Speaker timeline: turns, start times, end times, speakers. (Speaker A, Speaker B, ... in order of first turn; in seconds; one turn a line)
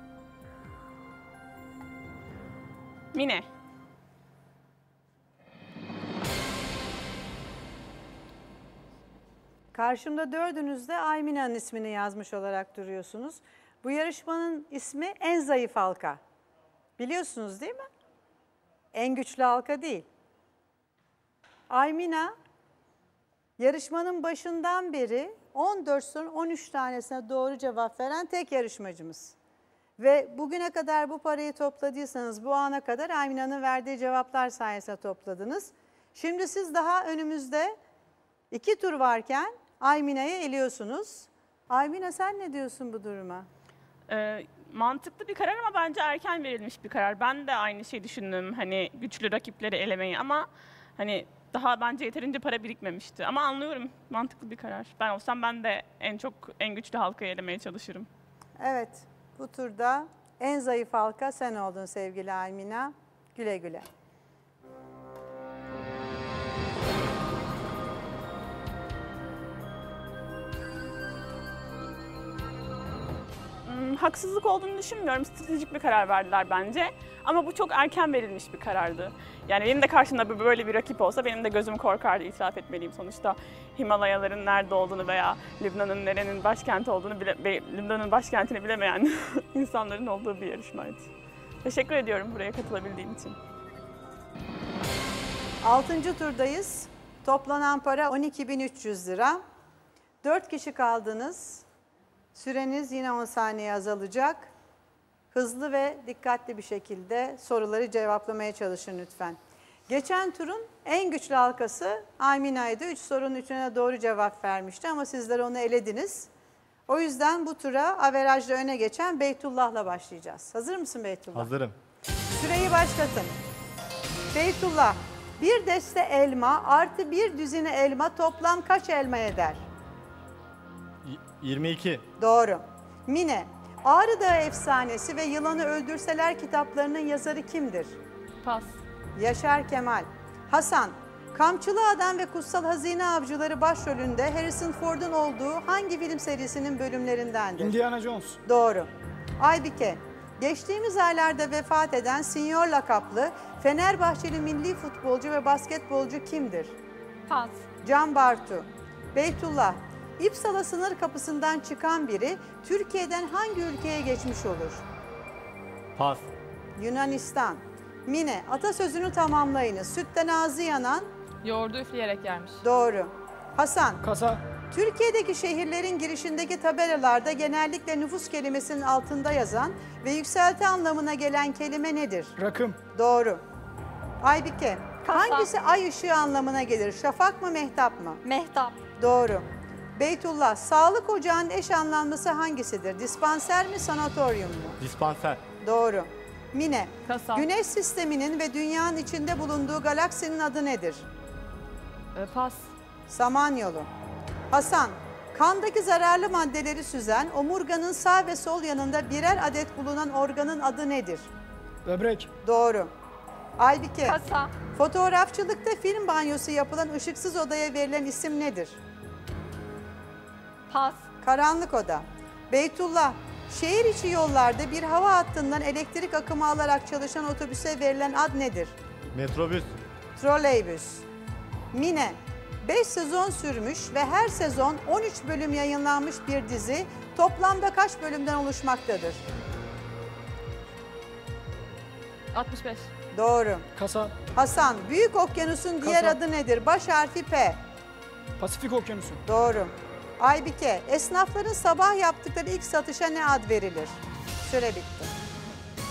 Speaker A: 3.1-3.5
Speaker B: 9.7-16.2
Speaker B: 17.0-17.9
Speaker B: 18.9-20.1
Speaker B: 21.7-22.3
Speaker B: 23.6-29.4
Speaker B: 30.0-37.8
Speaker B: 38.5-43.5
Speaker A: 44.1-58.1
Speaker B: 58.6-63.9
Speaker A: 73.7-91.1
Speaker A: 91.6-93.4
Speaker B: 95.6-99.4
Speaker B: 100.2-101.7
Speaker B: 102.3-104.5
Speaker B: 105.3-116.3
Speaker B: 116.9-121.5
Speaker C: 121.3-121.8
Speaker B: 122.3-123.4
Speaker B: 124.3-129.7
Speaker C: 131.0-132.1
Speaker B: 132.2-138.0
Speaker D: 138.4-138.8
Speaker B: 139.2-147.8
Speaker E: 147.6-148.4
Speaker B: 148.4-156.8
Speaker F: 157.3-157.6
Speaker B: 157.8-164.8
Speaker C: 166.0-166.3
Speaker B: 166.8-171.1
Speaker D: 171.4-172.6
Speaker B: 172.6-174.0
Speaker E: 174.0-174.4
Speaker B: 174.7-182.3
Speaker E: 182.4-182.8
Speaker B: 182.9-183.4
Speaker B: 184.2-188.2
Speaker F: 185.0-185.5
Speaker F: 188.2-188.8
Speaker B: 189.0-194.8
Speaker C: 194.8-195.4
Speaker B: 195.6-201.1
Speaker D: 197.1-197.5
Speaker D: 202.2-202.7
Speaker B: 203.1-203.9
Speaker B: 204.5-211.3
Speaker E: 211.8-212.3
Speaker B: 212.4-212.9
Speaker B: 213.6-214.2
Speaker F: 214.1-214.5
Speaker B: 214.7-218.8
Speaker F: 220.7-221.1
Speaker B: 221.2-228.8
Speaker C: 229.1-229.8
Speaker B: 230.2-231.1
Speaker B: 231.7-239.2
Speaker D: 242.3-242.9
Speaker B: 243.1-243.7
Speaker E: 243.8-244.1
Speaker B: 244.3-247.6
Speaker E: 245.8-246.2
Speaker E: 248.4-249.2
Speaker B: 249.2-255.1